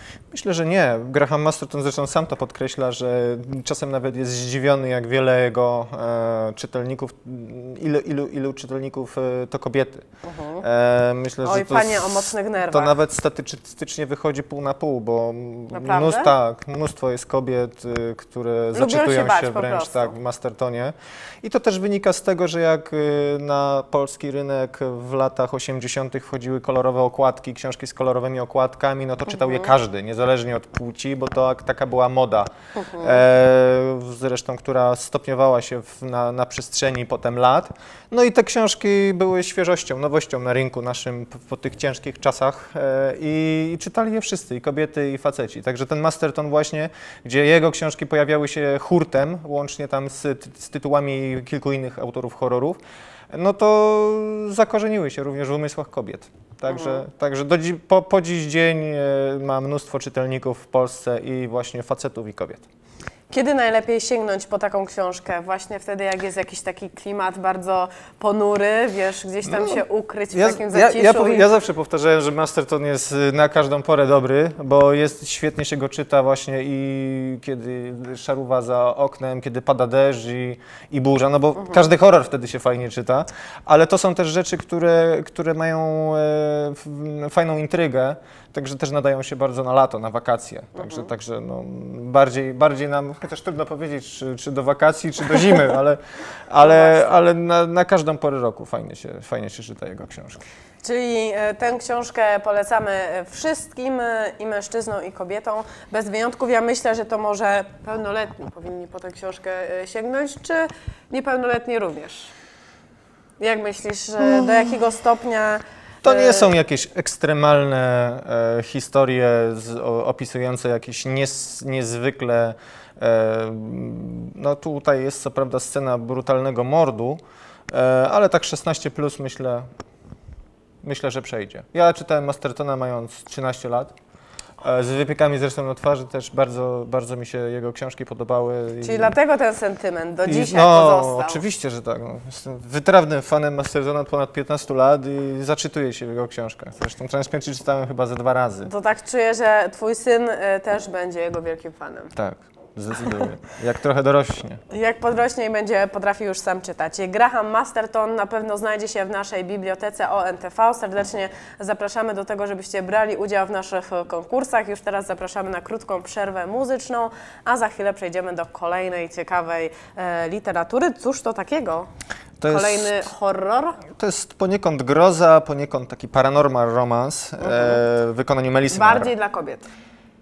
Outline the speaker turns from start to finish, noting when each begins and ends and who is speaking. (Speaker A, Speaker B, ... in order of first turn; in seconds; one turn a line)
Speaker A: 0.3-10.0
Speaker B: 10.2-10.6
Speaker A: 10.6-52.8
Speaker B: 11.4-12.9
Speaker B: 15.7-16.3
Speaker B: 18.7-20.1
Speaker B: 29.4-29.7
Speaker B: 32.7-33.2
Speaker A: 53.3-62.6
Speaker B: 56.7-57.0
Speaker B: 63.3-71.5
Speaker A: 69.5-69.8
Speaker A: 70.3-100.4
Speaker B: 96.6-97.1
Speaker B: 100.8-112.3
Speaker B: 113.4-116.5
Speaker A: 116.0-129.6
Speaker A: 130.8-133.9
Speaker A: 134.6-139.2
Speaker B: 138.8-141.4
Speaker A: 140.2-148.7
Speaker B: 148.6-152.1
Speaker A: 152.1-154.6
Speaker B: 154.7-171.9
Speaker A: 172.4-173.1
Speaker B: 172.4-173.8
Speaker A: 173.9-179.1
Speaker B: 177.4-177.8
Speaker B: 178.7-179.7